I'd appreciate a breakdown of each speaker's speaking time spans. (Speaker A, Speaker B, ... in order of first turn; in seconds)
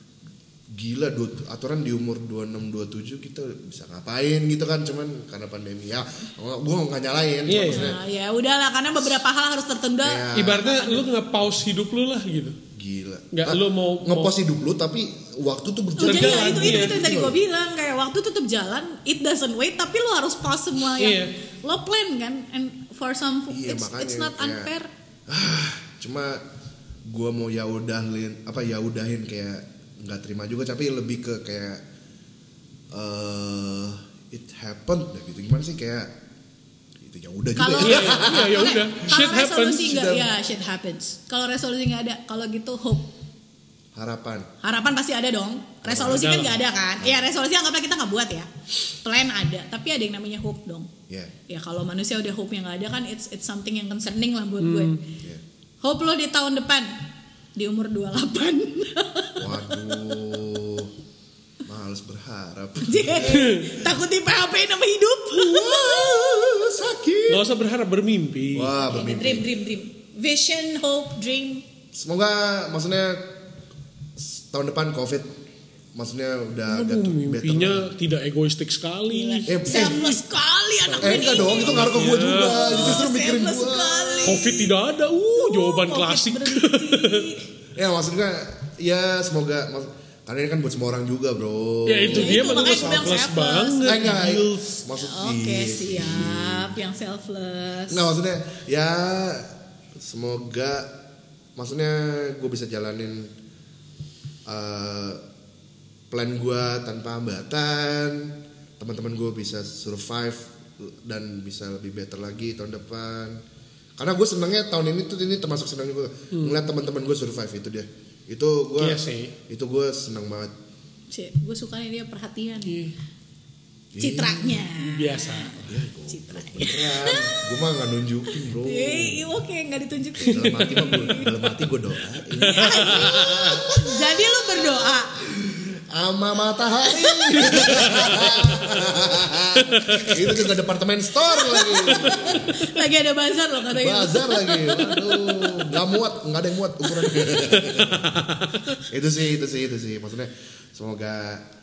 Speaker A: 0.7-8.0, 10.0-10.7, 12.7-17.4, 23.5-24.7, 25.3-26.4, 27.1-31.8, 32.9-36.1, 37.0-38.7, 39.9-40.2, 44.0-44.5, 45.8-46.4, 47.0-47.3, 59.4-60.9, 61.6-63.5, 65.4-67.5, 68.5-69.5, 71.9-73.3, 74.2-75.3, 75.9-77.9, 79.5-80.0, 81.0-84.5, 87.8-93.2, 93.8-96.8, 97.9-100.9, 101.6-103.3, 104.5-105.2, 106.1-113.4, 114.0-120.5, 123.9-124.6, 125.6-129.3, 130.2-142.7, 143.7-148.1, 148.9-151.4
Speaker B: 7.5-8.0, 10.3-12.6, 13.3-14.4, 16.0-17.2, 21.0-21.3, 37.8-40.1, 46.0-46.6, 54.6-55.0, 63.3-63.7, 67.3-68.8, 76.7-80.2, 80.9-83.0, 84.2-87.3, 91.9-94.8, 116.3-116.6, 118.8-119.3, 122.7-122.9, 124.7-125.7, 130.3-130.7, 132.4-133.6, 137.5-138.5, 139.6-140.3, 147.7-148.8
Speaker C: 7.6-11.1, 16.0-24.9, 37.6-43.1, 44.6-50.9, 51.5-55.0, 55.8-56.9, 57.5-60.0, 62.8-66.7, 68.8-71.6, 79.1-84.7, 85.3-87.5, 92.1-94.2, 95.0-98.1, 121.1-122.9, 124.0-127.6, 128.3-131.3, 132.4-135.1, 136.9-137.5, 141.3-145.7